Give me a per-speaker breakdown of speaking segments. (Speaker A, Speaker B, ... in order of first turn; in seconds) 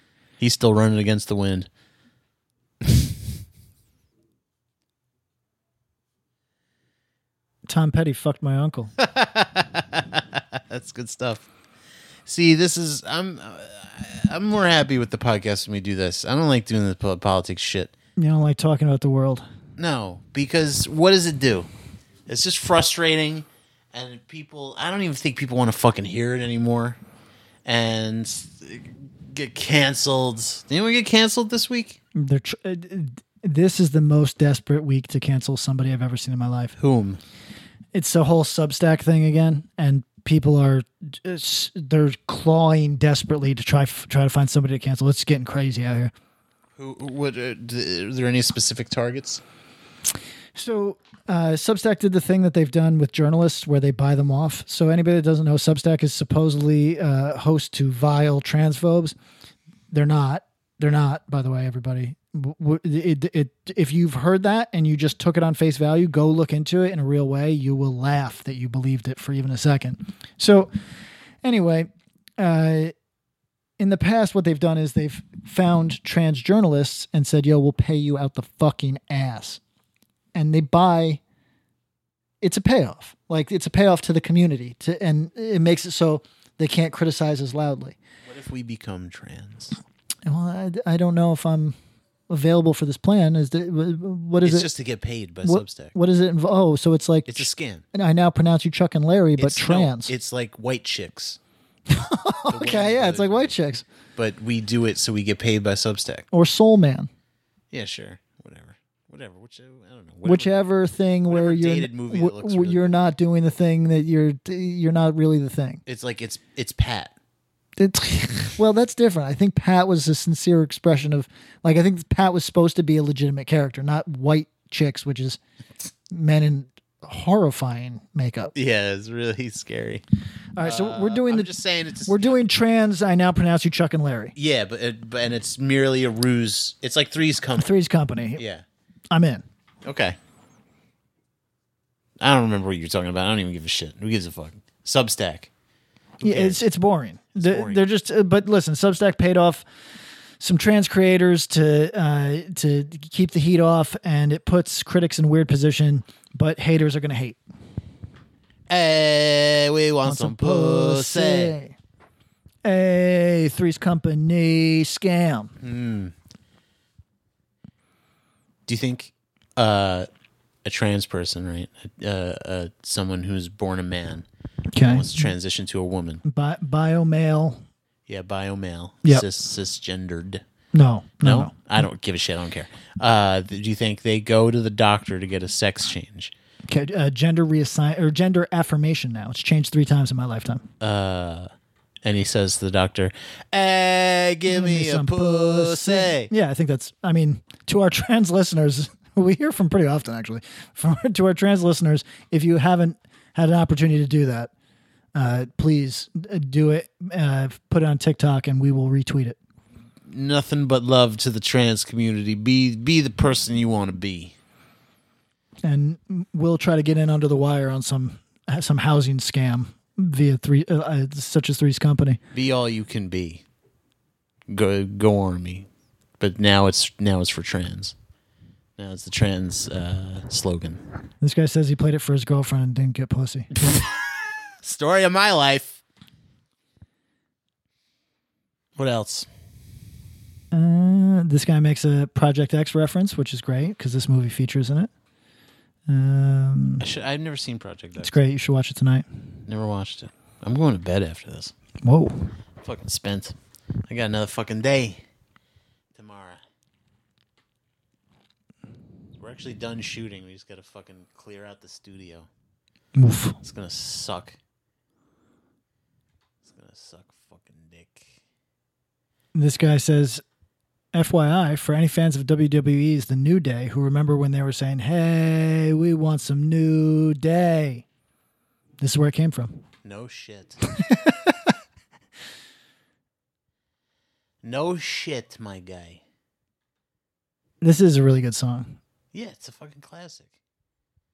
Speaker A: 0.4-1.7, 9.0-11.5, 12.2-17.9, 19.8-21.7, 22.3-27.0, 27.6-32.0, 36.8-37.2, 46.8-49.4, 88.2-89.8, 94.4-95.9, 97.3-97.8, 99.4-101.4, 102.5-103.5, 104.2-106.2, 107.7-110.5, 111.3-113.0, 115.8-117.1, 128.5-130.0, 130.6-132.4, 134.3-137.7, 138.3-138.6, 139.8-140.2, 142.2-145.5, 146.2-146.7, 147.3-147.8, 158.7-161.5, 165.6-166.1, 168.7-170.1, 170.6-174.2, 174.8-176.2, 178.1-180.4, 181.2-186.3, 190.8-191.5, 192.0-196.3, 210.0-214.3, 222.3-223.4, 224.5-225.7, 226.2-227.9, 228.8-230.8, 234.6-235.8, 238.8-239.3, 246.8-248.2, 249.5-251.5, 252.6-253.3, 253.9-255.0, 255.9-256.4, 259.2-262.3, 263.4-264.4, 266.4-268.1, 279.8-280.6, 284.4-286.0, 289.1-290.3
Speaker B: 7.7-8.9, 18.2-19.4, 32.1-36.7, 37.9-46.1, 50.5-59.1, 59.9-70.7, 71.4-72.9, 73.8-79.6, 80.3-81.2, 82.4-88.0, 90.2-91.8, 92.3-94.7, 95.4-100.1, 101.9-103.8, 106.3-107.1, 110.2-115.8, 117.8-125.4, 126.1-128.5, 130.5-131.5, 132.0-134.3, 137.6-138.4, 139.1-139.4, 146.2-149.6, 150.4-157.4, 160.0-161.7, 162.6-165.5, 174.7-175.3, 176.2-177.6, 180.7-181.5, 186.7-190.7, 194.4-204.5, 205.1-209.4, 215.6-222.2, 231.2-233.5, 240.5-244.9, 245.9-246.8, 248.0-249.1, 251.8-252.3, 262.9-263.4, 269.3-270.2, 270.9-277.8, 278.8-279.6, 280.8-281.5, 287.6-288.8